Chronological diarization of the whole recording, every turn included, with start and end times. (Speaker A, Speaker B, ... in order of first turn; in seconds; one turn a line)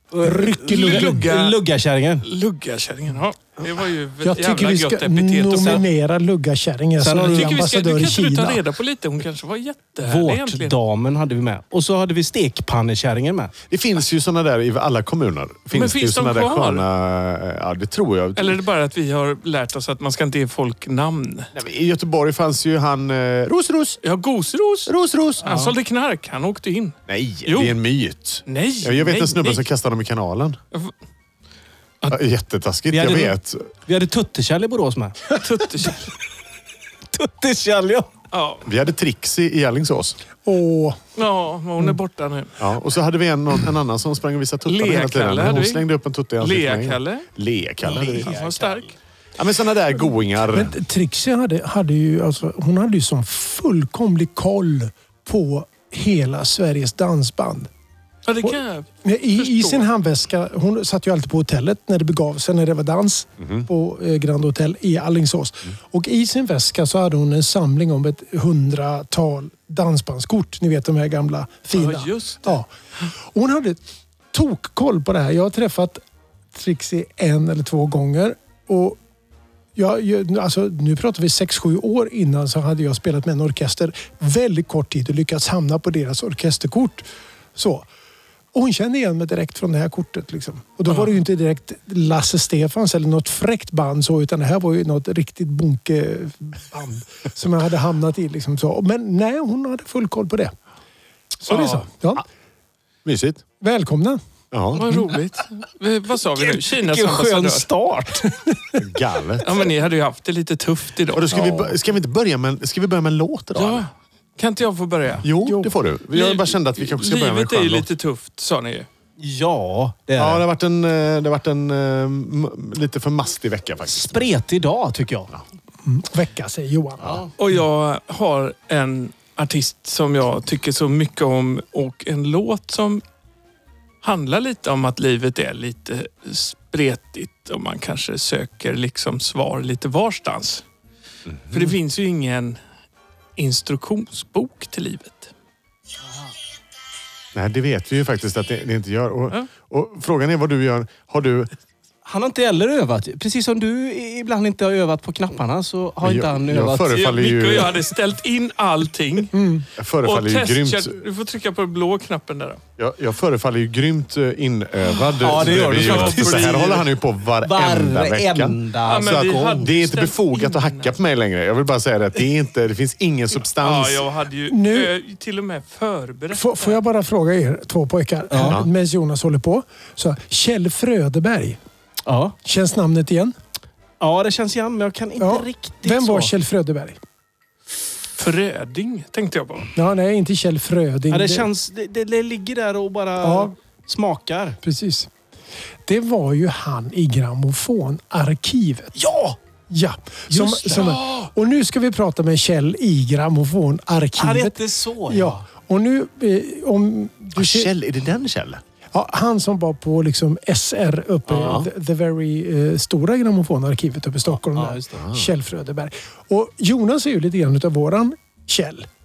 Speaker A: 0.1-2.2
Speaker B: 0.2-1.3
Speaker C: 0.7-1.6
Speaker C: 2.2-5.9
Speaker B: 4.2-8.6
Speaker A: 5.5-5.8
Speaker A: 7.0-7.7
Speaker C: 7.3-10.8
Speaker A: 10.0-13.5
Speaker D: 13.7-18.6
Speaker C: 15.7-16.8
Speaker C: 18.4-21.5
Speaker D: 21.5-24.0
Speaker C: 24.0-27.8
Speaker D: 24.9-25.5
Speaker A: 25.4-25.7
Speaker D: 27.1-30.6
Speaker C: 28.4-29.6
Speaker D: 32.1-33.7
Speaker A: 32.9-33.3
Speaker A: 33.9-36.0
Speaker C: 35.3-36.1
Speaker A: 37.1-38.1
Speaker C: 38.3-38.7
Speaker D: 38.6-40.2
Speaker B: 40.4-41.0
Speaker C: 41.1-42.5
Speaker D: 42.6-48.4
Speaker C: 44.6-47.3
Speaker A: 47.8-48.8
Speaker C: 47.9-48.9
Speaker D: 49.4-50.8
Speaker B: 50.5-57.7
Speaker C: 58.2-59.9
Speaker B: 58.4-72.7
Speaker D: 63.4-63.7
Speaker C: 71.7-72.6
Speaker B: 73.3-73.8
Speaker B: 74.3-76.0
Speaker B: 76.5-79.0
Speaker B: 79.8-87.0
Speaker B: 87.5-87.9
Speaker B: 88.5-100.5
Speaker C: 90.9-91.1
Speaker B: 101.4-102.2
Speaker C: 101.5-101.8
Speaker D: 103.0-103.4
Speaker B: 103.6-104.2
Speaker D: 104.5-104.8
Speaker C: 104.7-107.7
Speaker A: 106.3-108.3
Speaker D: 108.8-109.6
Speaker C: 109.4-111.3
Speaker D: 111.1-113.9
Speaker B: 111.3-111.7
Speaker C: 113.5-115.3
Speaker D: 115.2-117.9
Speaker B: 115.4-115.7
Speaker C: 116.1-118.9
Speaker A: 119.2-120.4
Speaker D: 120.2-124.2
Speaker A: 123.8-125.3
Speaker B: 125.8-127.2
Speaker C: 127.4-133.0
Speaker C: 134.0-140.6
Speaker D: 141.3-141.7
Speaker C: 141.5-142.6
Speaker C: 143.4-145.3
Speaker D: 147.3-151.5
Speaker A: 152.0-157.0
Speaker D: 156.0-157.8
Speaker C: 156.9-159.3
Speaker B: 159.3-159.7
Speaker D: 159.8-160.9
Speaker C: 160.0-162.6
Speaker D: 162.8-174.0
Speaker C: 165.1-166.8
Speaker A: 165.2-166.8
Speaker A: 167.4-169.7
Speaker C: 168.8-170.9
Speaker C: 173.6-176.8
Speaker B: 174.5-174.9
Speaker B: 176.3-181.6
Speaker A: 178.3-178.6
Speaker D: 178.4-178.7
Speaker A: 182.1-182.3
Speaker B: 182.4-183.3
Speaker A: 184.0-186.3
Speaker B: 185.2-187.0
Speaker C: 188.2-189.7
Speaker B: 189.8-191.5
Speaker A: 191.1-194.6
Speaker B: 193.2-193.5
Speaker B: 194.6-195.1
Speaker B: 195.8-198.9
Speaker A: 198.9-199.4
Speaker B: 199.7-207.7
Speaker A: 200.3-201.0
Speaker C: 200.7-201.3
Speaker A: 204.1-205.4
Speaker D: 207.3-208.6
Speaker B: 208.9-218.9
Speaker A: 211.3-211.6
Speaker D: 211.4-211.7
Speaker A: 214.2-214.9
Speaker D: 214.9-215.3